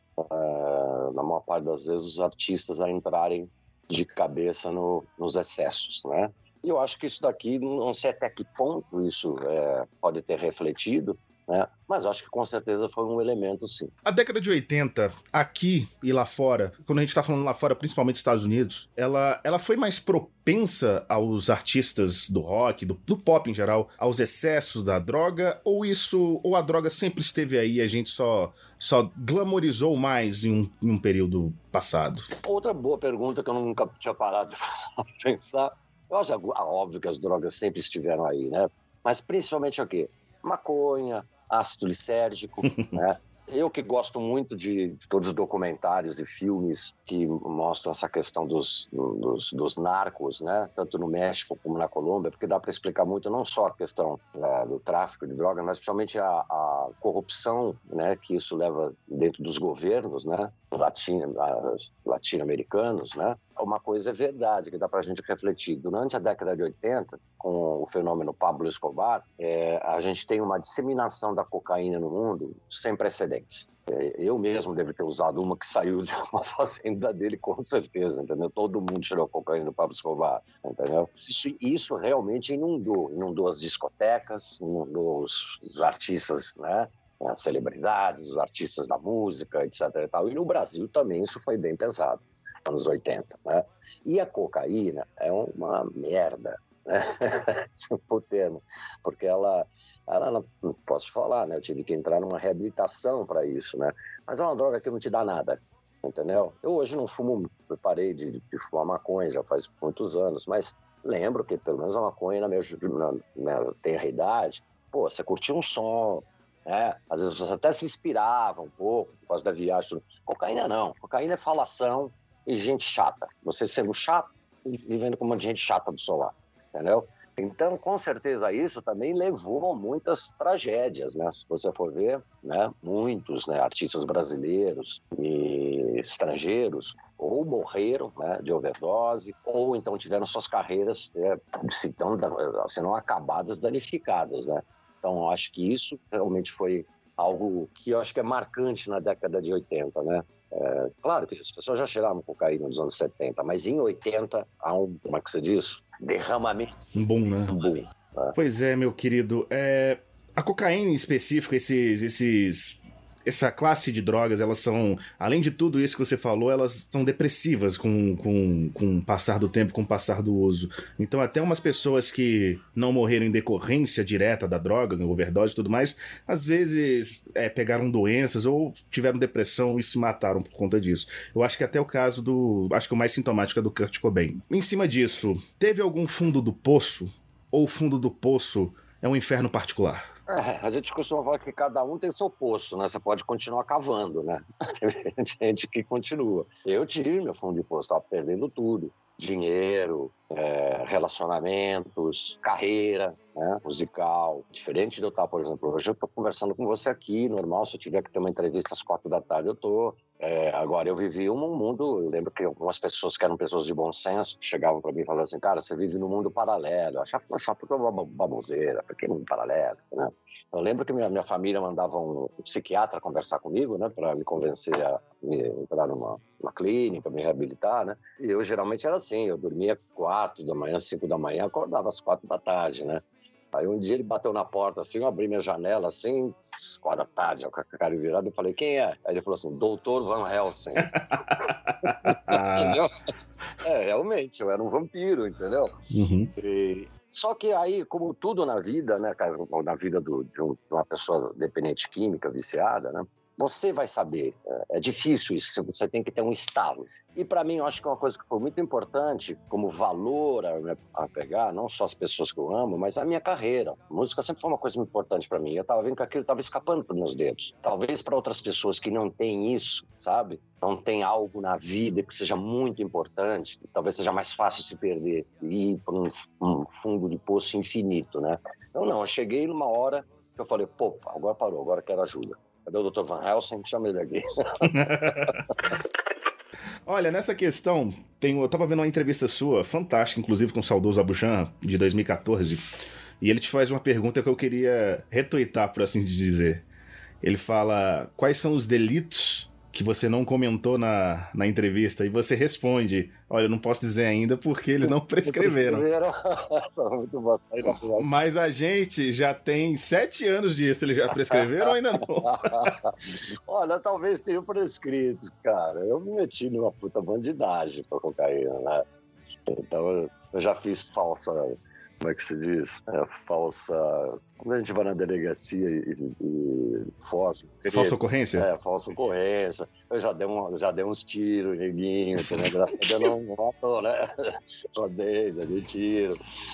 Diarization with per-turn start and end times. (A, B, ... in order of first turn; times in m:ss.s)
0:00.2-0:13.9 A
0:14.0-0:32.3 B
0:32.4-2:36.7 A
2:36.9-2:37.5 B
2:37.5-2:38.3 A
2:38.3-3:10.0 B
3:10.3-3:53.0 A
3:53.5-4:00.9 A
4:00.8-4:02.8 B
4:02.0-4:02.9 A
4:03.6-4:05.7 A
4:05.9-4:06.3 B
4:06.4-4:45.5 A
4:44.7-4:45.4 B
4:46.8-4:52.7 B
4:53.2-4:56.6 B
4:57.2-5:05.8 B
5:04.8-5:08.1 A
5:07.7-5:12.8 B
5:11.2-5:18.8 A
5:19.5-5:36.2 A
5:27.7-5:28.5 B
5:32.2-5:32.5 B